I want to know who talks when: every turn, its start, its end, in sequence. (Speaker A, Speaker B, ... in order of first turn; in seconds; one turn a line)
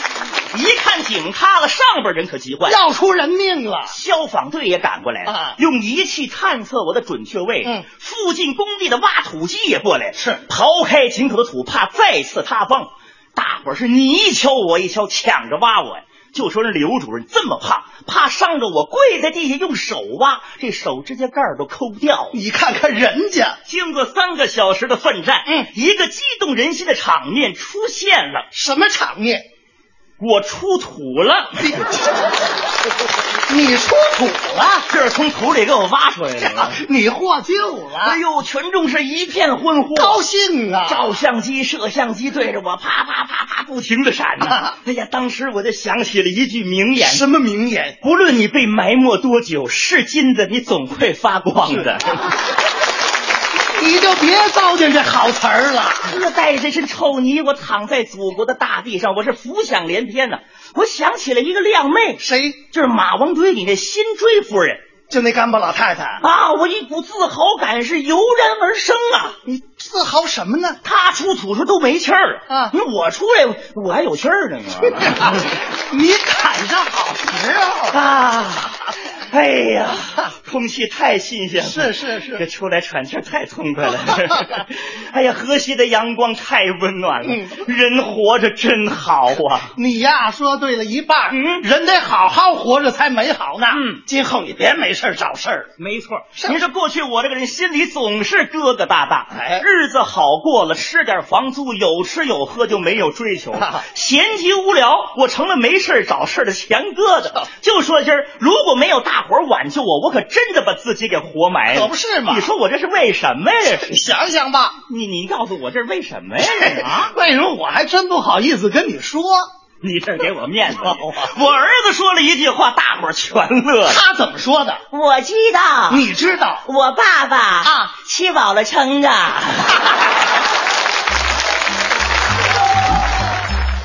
Speaker A: 0.5-2.8
Speaker B: 2.7-3.9
Speaker A: 3.9-22.4
Speaker B: 5.3-5.6
Speaker B: 10.2-10.4
Speaker B: 22.3-23.6
Speaker A: 23.7-28.5
Speaker B: 28.5-29.4
Speaker A: 30.2-31.7
Speaker B: 31.6-32.1
Speaker B: 33.5-34.9
Speaker A: 34.9-36.8
Speaker B: 36.4-38.2
Speaker A: 38.0-40.2
Speaker B: 39.9-41.1
Speaker A: 40.9-47.3
Speaker B: 44.4-44.7
Speaker B: 47.0-48.0
Speaker A: 48.0-52.3
Speaker B: 53.8-56.1
Speaker A: 56.0-64.8
Speaker B: 62.2-62.6
Speaker B: 65.1-66.2
Speaker A: 66.2-69.4
Speaker B: 69.5-70.8
Speaker A: 70.8-75.4
Speaker B: 72.5-72.8
Speaker B: 75.1-78.0
Speaker A: 77.9-89.7
Speaker B: 81.6-82.5
Speaker B: 87.2-87.6
Speaker B: 89.8-95.7
Speaker A: 91.3-91.7
Speaker A: 93.7-94.0
Speaker A: 95.8-113.9
Speaker B: 96.4-96.6
Speaker B: 99.3-99.6
Speaker B: 103.6-103.8
Speaker B: 111.7-112.5
Speaker B: 113.9-114.8
Speaker A: 114.9-117.1
Speaker B: 116.4-119.5
Speaker A: 119.8-124.0
Speaker B: 120.8-121.3
Speaker B: 123.9-124.8
Speaker A: 124.9-126.1
Speaker B: 125.9-126.7
Speaker A: 126.7-129.9
Speaker B: 127.6-127.9